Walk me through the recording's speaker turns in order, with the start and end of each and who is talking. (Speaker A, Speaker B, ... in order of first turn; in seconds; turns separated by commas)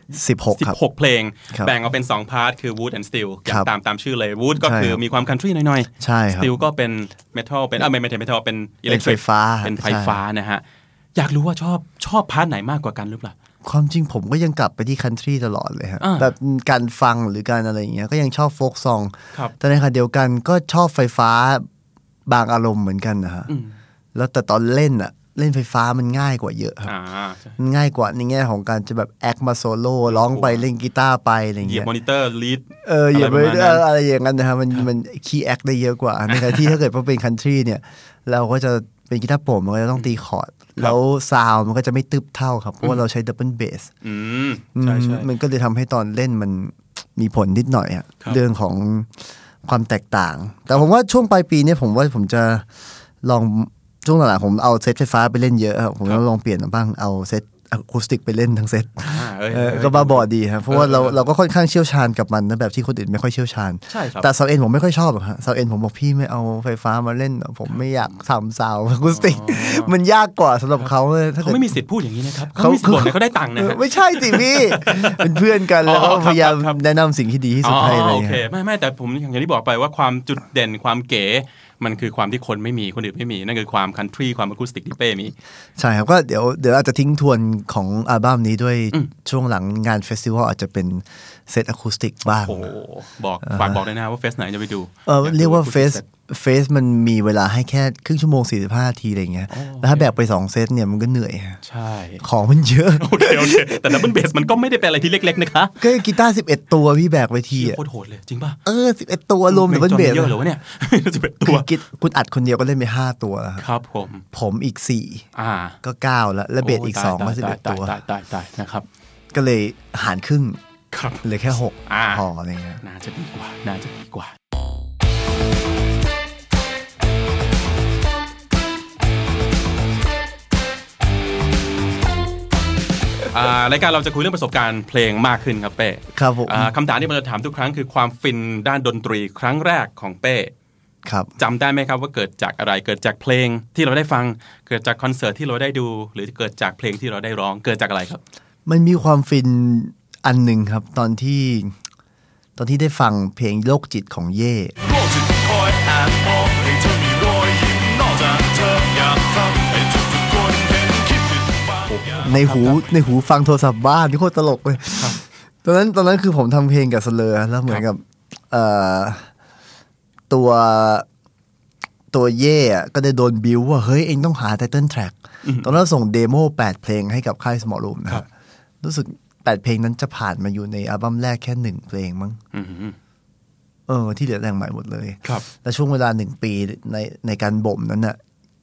Speaker A: 0.1-0.8, Speaker B: 0.5-10.6, Speaker A: 4.6-5.0, Speaker A: 6.0-6.6, Speaker A: 8.8-10.2, Speaker B: 11.2-13.3, Speaker A: 13.6-21.6, Speaker B: 16.0-16.3, Speaker A: 22.2-23.5, Speaker B: 23.5-23.8, Speaker A: 24.1-26.9, Speaker B: 26.8-27.6, Speaker A: 27.6-31.9, Speaker B: 30.1-30.6, Speaker B: 31.6-33.9, Speaker A: 32.8-43.9, Speaker B: 36.3-36.7, Speaker B: 44.0-45.3, Speaker A: 44.8-52.6, Speaker A: 53.2-71.7, Speaker B: 59.0-61.2, Speaker B: 63.9-64.3, Speaker B: 67.7-68.2, Speaker B: 69.1-69.9, Speaker B: 70.8-76.8, Speaker A: 72.5-78.4, Speaker B: 77.6-85.3, Speaker A: 85.8-92.7, Speaker B: 92.3-96.0, Speaker A: 93.4-93.8, Speaker A: 95.0-101.6, Speaker B: 99.5-100.1, Speaker B: 101.6-102.2, Speaker A: 102.2-103.8, Speaker B: 103.0-105.8, Speaker A: 105.8-107.8, Speaker B: 107.5-108.6, Speaker A: 108.6-110.4, Speaker B: 109.5-111.7, Speaker A: 111.5-113.6, Speaker B: 113.6-114.2, Speaker A: 114.3-115.2, Speaker B: 115.3-115.8, Speaker A: 115.8-118.0, Speaker B: 116.6-118.8, Speaker A: 119.3-120.6, Speaker B: 120.9-121.2, Speaker A: 121.2-122.8, Speaker B: 121.9-122.2, Speaker B: 122.8-124.3, Speaker B: 133.3-140.5, Speaker A: 136.1-136.7, Speaker A: 141.0-141.3, Speaker B: 141.4-148.2, Speaker A: 148.7-151.7, Speaker A: 152.6-154.7, Speaker C: 154.8-162.3, Speaker B: 161.9-162.8, Speaker A: 162.2-169.3, Speaker A: 170.3-171.1, Speaker A: 172.1-178.2, Speaker B: 175.4-175.7, Speaker A: 178.8-182.4, Speaker B: 182.5-182.9, Speaker A: 183.9-188.2